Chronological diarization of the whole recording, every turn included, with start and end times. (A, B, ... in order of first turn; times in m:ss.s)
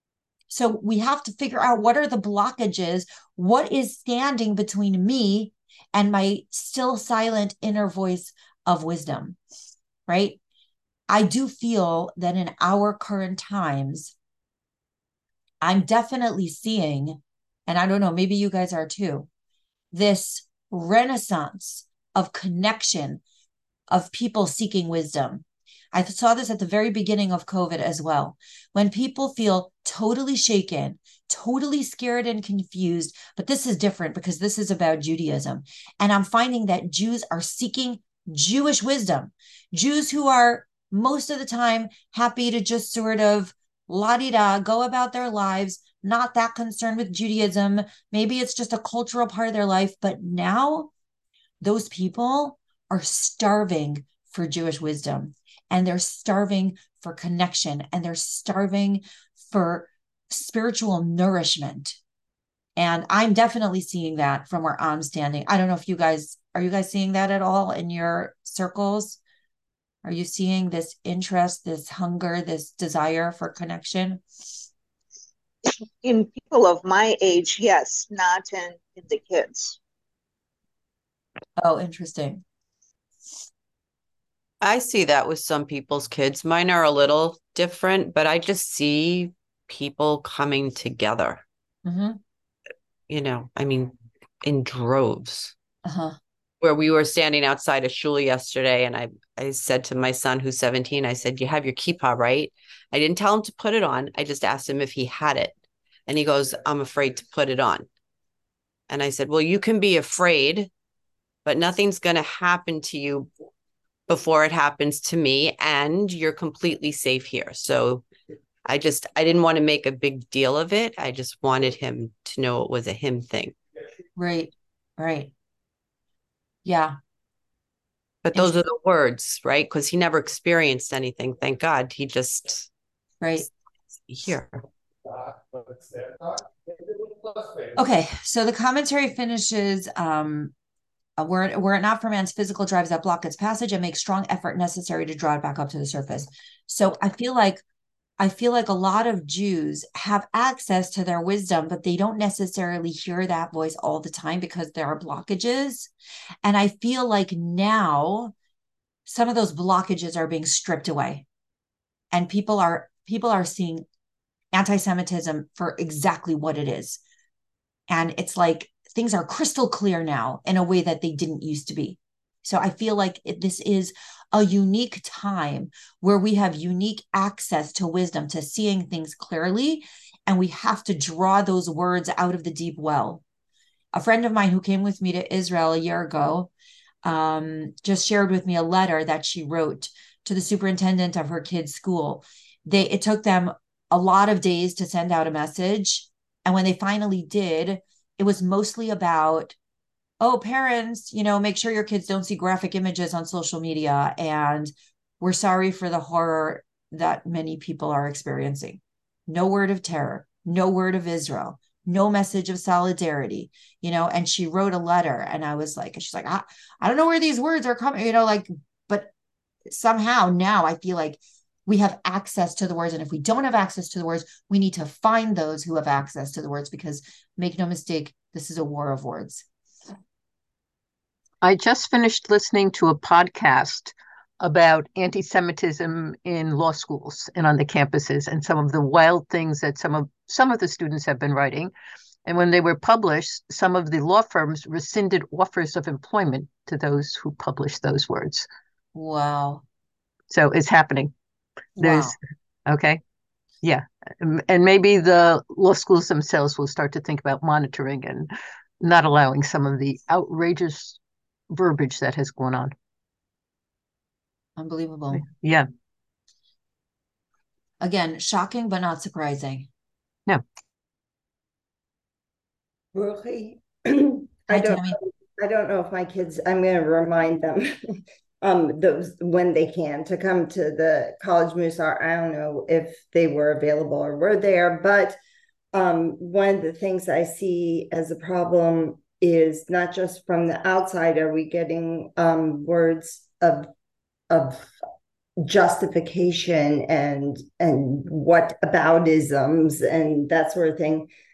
0:00.5-0:09.4 A
0:10.1-0:10.4 A
0:11.1-0:14.1 A
0:15.6-0:19.3 A
0:19.9-0:23.2 A
0:23.9-0:50.9 A
0:51.6-1:02.0 A
1:02.8-1:09.2 A
1:10.0-1:14.2 A
1:15.7-1:19.8 B
1:21.6-1:22.4 A
1:24.6-1:31.4 C
1:31.8-1:32.2 A
1:33.1-1:35.5 C
1:35.8-1:36.2 A
1:36.6-1:45.6 C
1:46.1-1:47.9 C
1:48.9-1:50.7 C
1:51.4-1:53.3 C
1:54.1-1:58.0 C
1:58.6-2:03.6 C
2:04.2-2:05.3 A
2:06.6-2:07.0 A
2:08.2-2:12.7 C
2:13.2-2:13.5 A
2:14.1-2:14.6 C
2:17.8-2:20.5 A
2:21.2-2:27.6 A
2:28.2-2:35.9 A
2:36.4-2:38.3 A
2:39.1-2:41.2 A
2:42.1-2:43.8 A
2:44.5-2:47.0 A
2:47.9-3:03.2 A
3:03.9-3:06.5 A
3:07.0-3:19.6 A
3:20.2-3:39.1 A
3:39.7-3:49.4 A
3:51.4-4:01.7 D
4:02.3-4:08.5 D
4:08.9-4:09.6 A
4:10.3-4:11.1 D
4:11.8-4:12.1 A
4:11.8-4:13.0 D
4:13.6-4:21.0 D
4:21.5-4:22.7 D
4:24.6-4:25.3 A
4:25.1-4:25.6 D
4:27.8-4:29.7 A
4:32.9-4:45.2 E
4:34.5-4:35.0 A
4:45.7-4:53.7 E
4:54.3-4:54.7 E
4:55.4-5:01.1 E